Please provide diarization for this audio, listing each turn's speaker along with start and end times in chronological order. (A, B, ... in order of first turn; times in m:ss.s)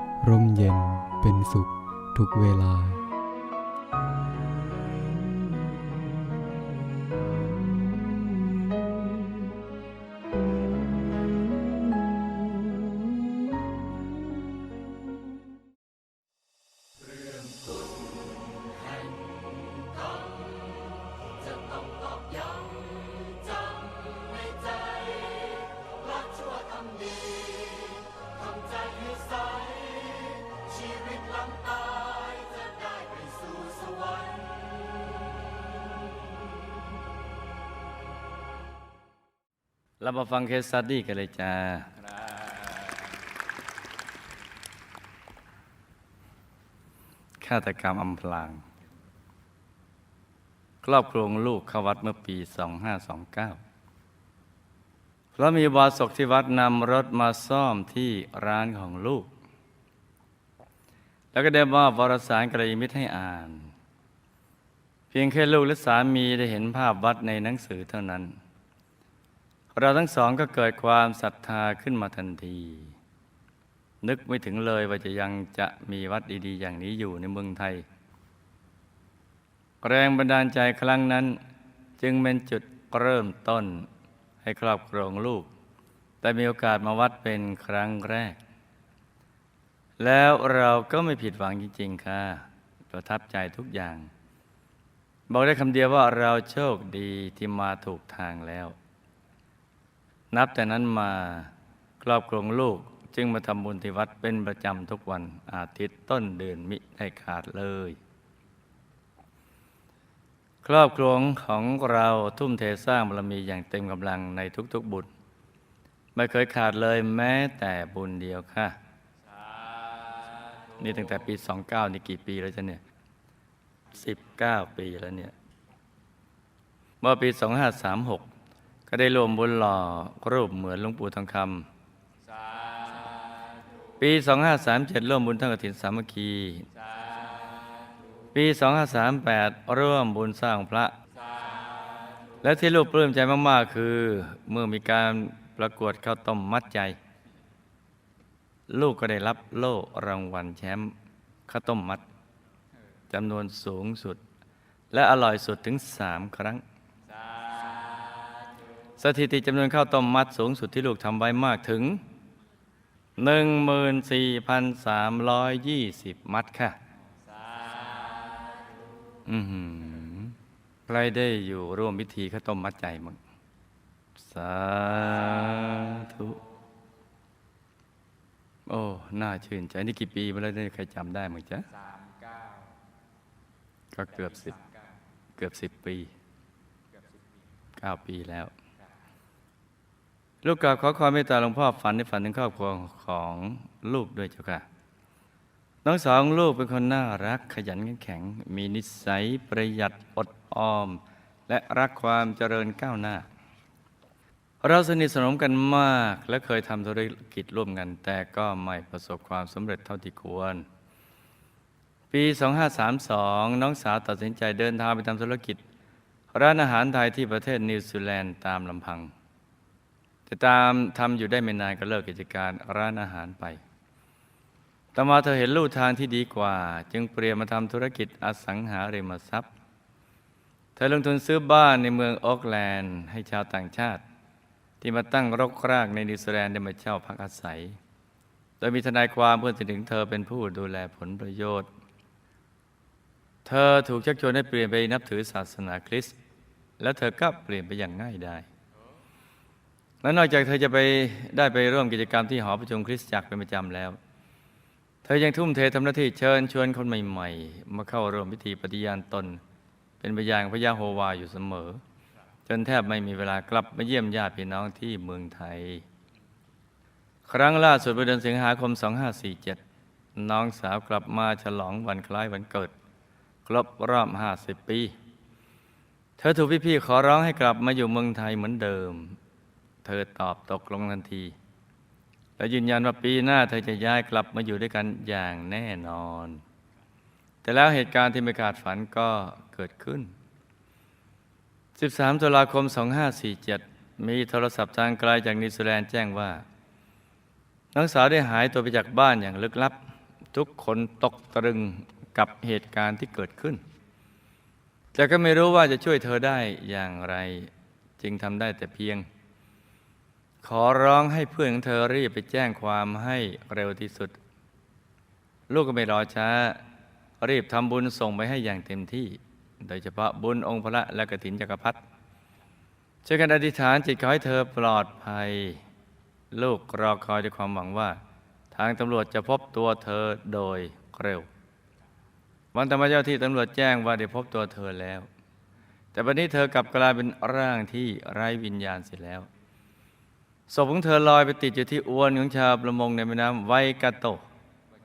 0:00.2-0:03.0 A
0:21.7-0:34.5 B
0:40.0-0:41.9 C
0:42.0-0:43.1 B
0:47.4-0:48.6 C
0:50.8-0:53.6 C
0:55.4-0:59.3 C
1:01.3-1:03.7 C
1:05.1-1:08.3 C
1:09.8-1:13.0 C
1:14.0-1:17.8 C
1:19.8-1:21.4 C
1:22.0-1:23.9 C
1:24.4-1:25.5 C
1:26.2-1:28.4 C
1:30.0-1:34.1 C
1:35.3-1:38.8 C
1:40.3-1:48.0 C
1:50.6-1:55.1 C
1:56.2-1:58.8 C
1:59.2-2:01.4 B
2:00.8-2:02.8 C
2:03.9-2:05.3 C
2:07.0-2:08.3 C
2:08.9-2:11.7 C
2:12.2-2:13.7 B
2:14.0-2:16.6 C
2:16.7-2:18.3 B
2:18.3-2:21.0 C
2:21.1-2:22.4 B
2:22.4-2:27.0 C
2:28.7-2:30.9 C
2:31.5-2:32.0 C
2:33.1-2:34.2 C
2:34.9-2:36.6 C
2:37.1-2:38.9 B
2:39.0-2:42.0 C
2:43.2-2:46.8 C
2:47.2-2:49.0 B
2:49.3-2:50.4 C
2:50.9-2:53.2 C
2:54.2-2:56.4 C
2:58.7-3:01.7 C
3:01.7-3:02.8 B
3:03.9-3:04.6 C
3:04.1-3:05.0 B
3:05.4-3:06.1 C
3:06.9-3:07.6 B
3:07.8-3:08.5 C
3:10.4-3:14.6 C
3:15.8-3:23.3 C
3:24.6-3:30.7 C
3:32.1-3:35.6 C
3:36.3-3:39.1 C
3:40.3-3:43.6 C
3:44.9-3:49.5 C
3:50.8-3:54.0 C
3:54.8-3:57.8 C
3:58.6-4:01.7 C
4:03.4-4:06.2 C
4:06.8-4:08.5 C
4:10.0-4:14.0 C
4:15.0-4:19.4 C
4:20.0-4:21.8 C
4:22.5-4:25.8 C
4:27.3-4:29.6 C
4:30.2-4:32.7 C
4:33.5-4:34.9 C
4:36.2-4:39.2 C
4:39.8-4:41.4 C
4:42.4-4:46.4 C
4:47.4-4:50.1 C
4:51.8-4:56.4 C
4:57.7-4:59.8 C
5:00.3-5:03.6 C
5:05.0-5:09.1 C
5:10.4-5:14.2 C
5:15.5-5:16.6 C
5:17.2-5:21.8 C
5:23.0-5:25.6 C
5:26.3-5:28.0 C
5:28.5-5:31.3 C
5:32.5-5:35.1 C
5:35.9-5:39.3 C
5:40.5-5:44.2 C